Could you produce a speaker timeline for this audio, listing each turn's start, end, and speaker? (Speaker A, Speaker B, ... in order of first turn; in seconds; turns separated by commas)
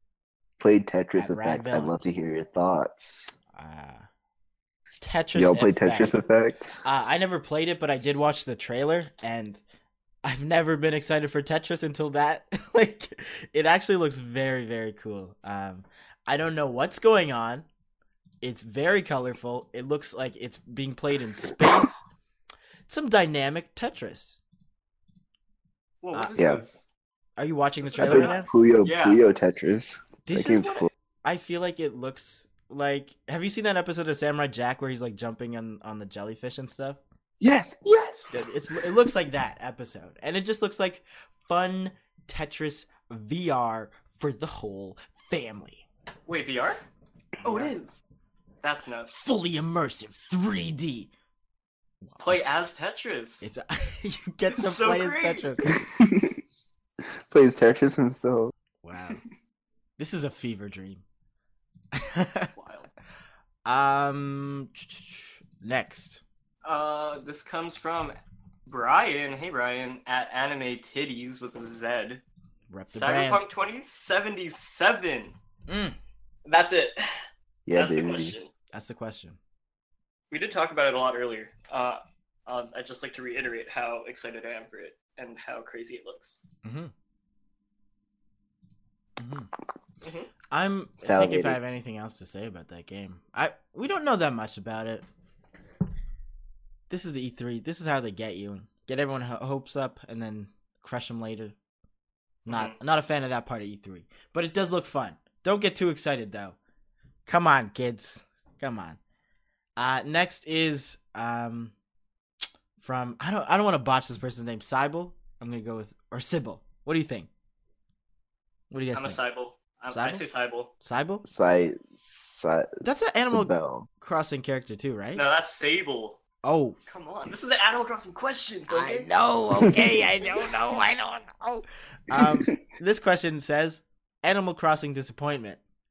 Speaker A: 0.6-3.3, Speaker B: 1.2-1.9, Speaker B: 3.6-4.1, Speaker B: 5.0-6.2, Speaker A: 5.3-6.7, Speaker B: 6.8-9.6, Speaker B: 10.2-17.7, Speaker B: 18.4-22.0, Speaker B: 22.9-24.4, Speaker C: 26.0-26.9, Speaker A: 26.4-26.6, Speaker B: 27.4-28.5, Speaker C: 27.8-29.2, Speaker A: 28.0-30.9, Speaker B: 30.3-37.0, Speaker A: 37.4-38.9, Speaker B: 38.3-45.9, Speaker C: 46.3-46.8, Speaker B: 47.4-47.8, Speaker C: 47.4-48.0, Speaker C: 48.6-49.3, Speaker B: 49.1-51.1, Speaker B: 52.0-52.5, Speaker C: 52.2-53.5, Speaker B: 53.4-55.7, Speaker C: 54.5-55.7, Speaker A: 55.7-56.4, Speaker A: 57.3-58.5, Speaker B: 58.8-59.2, Speaker B: 60.0-61.0, Speaker B: 61.9-62.5, Speaker C: 62.5-62.9, Speaker B: 63.7-66.2, Speaker C: 66.7-68.2, Speaker C: 68.7-72.2, Speaker B: 72.7-73.5, Speaker C: 72.9-75.4, Speaker B: 75.7-76.0, Speaker C: 76.5-78.5, Speaker A: 77.7-78.4, Speaker B: 78.7-79.4, Speaker C: 80.3-86.4, Speaker B: 86.6-86.9, Speaker B: 89.2-89.5, Speaker C: 90.0-90.3, Speaker B: 90.5-95.1, Speaker A: 91.0-91.6, Speaker B: 96.9-101.5, Speaker B: 102.5-106.6, Speaker C: 102.5-102.8, Speaker B: 107.3-109.0, Speaker B: 109.8-111.7, Speaker B: 112.8-117.3, Speaker B: 118.7-119.2, Speaker C: 119.0-120.7, Speaker B: 119.9-120.2, Speaker B: 120.8-121.2, Speaker A: 121.2-123.9, Speaker B: 122.8-125.2, Speaker C: 125.2-126.2, Speaker B: 126.4-126.9, Speaker C: 126.9-129.1, Speaker B: 128.7-135.6, Speaker A: 129.6-130.0, Speaker A: 132.1-132.6